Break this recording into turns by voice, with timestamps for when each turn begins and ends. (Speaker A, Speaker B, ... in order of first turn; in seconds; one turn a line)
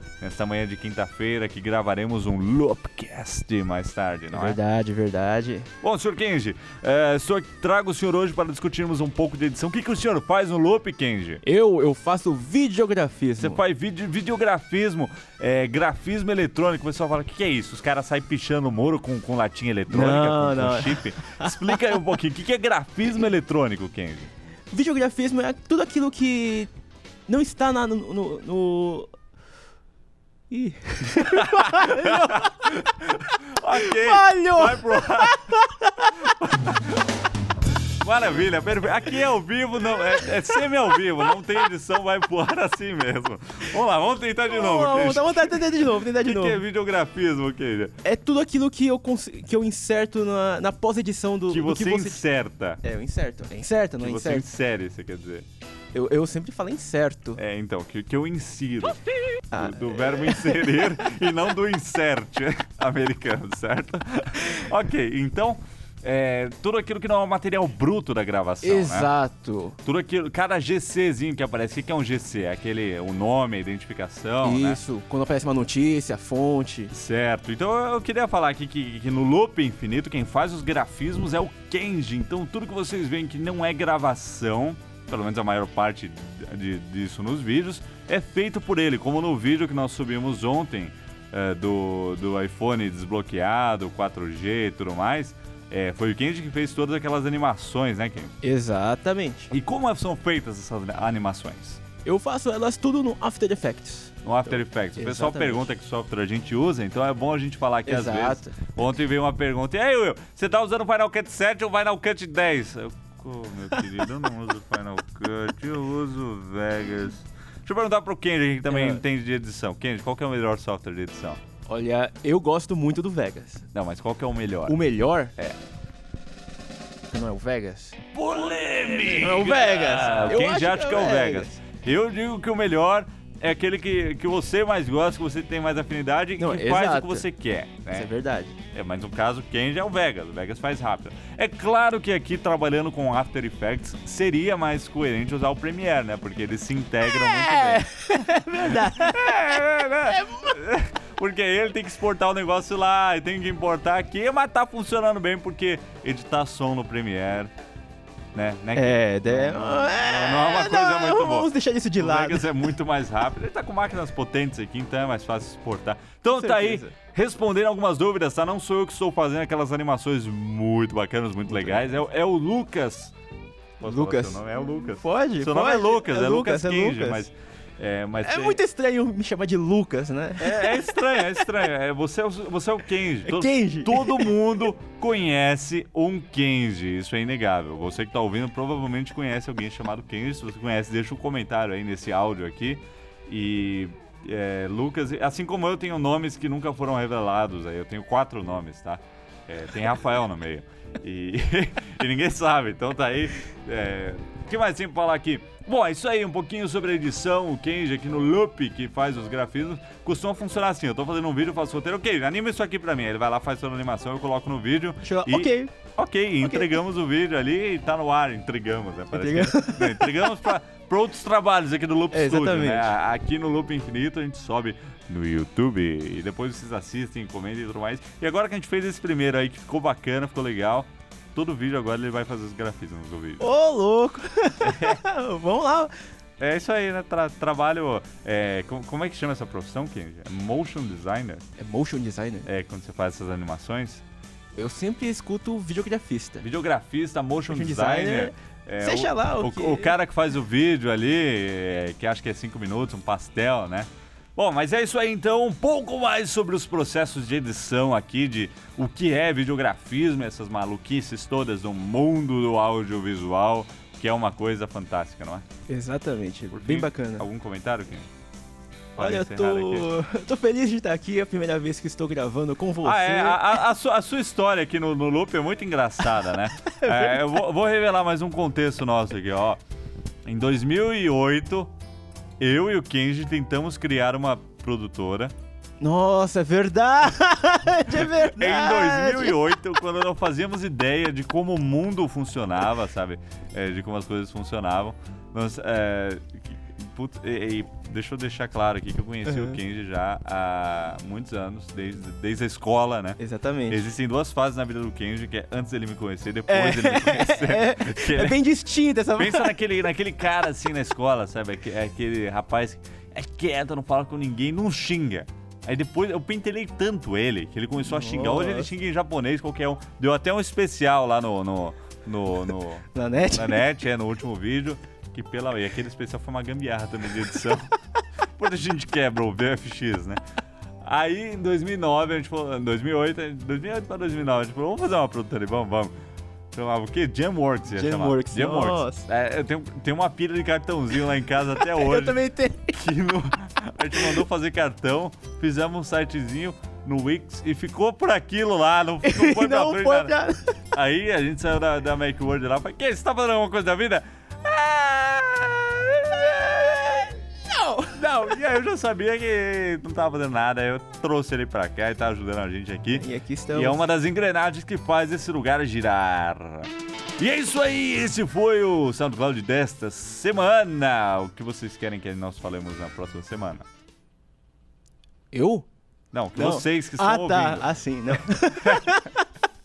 Speaker A: 0.2-4.6
Speaker B: 4.3-5.7
Speaker A: 5.8-11.4
Speaker B: 11.4-13.6
Speaker A: 13.4-24.3
Speaker B: 19.9-21.8
Speaker B: 24.7-26.7
Speaker B: 27.3-29.1
Speaker B: 30.5-32.7
Speaker A: 31.2-37.0
Speaker B: 33.7-36.1
Speaker A: 38.0-47.9
Speaker B: 44.5-46.6
Speaker B: 48.0-52.2
Speaker A: 51.5-52.8
Speaker B: 52.8-54.5
Speaker A: 54.0-55.4
Speaker B: 55.9-57.4
Speaker A: 57.4-69.1
Speaker B: 59.5-61.0
Speaker B: 68.6-69.8
Speaker A: 69.8-74.8
Speaker B: 74.4-76.9
Speaker A: 76.9-98.3
Speaker B: 98.4-99.5
Speaker A: 99.5-101.8
Speaker B: 102.0-105.7
Speaker A: 104.2-121.4
Speaker B: 107.8-108.5
Speaker B: 118.7-119.0
Speaker B: 121.7-123.7
Speaker A: 123.7-124.8
Speaker B: 124.7-125.3
Speaker B: 127.1-128.0
Speaker A: 128.1-138.1
Speaker B: 128.7-131.5
Speaker B: 136.4-137.3
Speaker B: 137.9-138.6
Speaker A: 138.7-148.0
Speaker B: 147.1-150.5
Speaker A: 148.6-157.5
Speaker A: 158.3-173.1
Speaker B: 158.7-162.6
Speaker B: 166.3-166.9
Speaker A: 173.8-178.6
Speaker B: 173.8-177.2
Speaker B: 178.2-181.4
Speaker A: 180.4-233.5
Speaker B: 183.2-184.3
Speaker B: 215.0-215.7
Speaker B: 216.4-216.7
Speaker B: 219.1-220.3
Speaker B: 222.1-222.9
Speaker B: 233.4-235.9
Speaker A: 234.6-235.0
Speaker A: 236.4-241.4
Speaker B: 241.6-242.5
Speaker A: 242.4-244.0
Speaker B: 244.6-246.4
Speaker A: 246.4-265.4
Speaker B: 247.5-249.9
Speaker B: 265.7-267.3
Speaker A: 266.5-268.1
Speaker A: 268.9-269.9
Speaker B: 269.0-273.6
Speaker A: 272.8-279.6
Speaker B: 276.9-277.3
Speaker A: 280.2-281.7
Speaker A: 282.4-285.3
Speaker B: 285.8-289.4
Speaker A: 287.9-308.4
Speaker B: 299.2-299.6
Speaker B: 303.2-303.8
Speaker B: 306.5-309.6
Speaker A: 309.2-327.7
Speaker B: 317.8-318.7
Speaker B: 322.9-323.6
Speaker A: 328.4-330.2
Speaker A: 330.8-335.9
Speaker A: 336.5-350.1
Speaker B: 337.7-339.1
Speaker B: 341.6-342.7
Speaker B: 349.0-350.6
Speaker A: 350.7-357.1
Speaker B: 357.5-357.9
Speaker A: 357.9-373.6
Speaker B: 362.9-363.8
Speaker B: 375.3-375.7
Speaker A: 376.1-377.7
Speaker B: 376.4-379.2
Speaker A: 378.6-378.9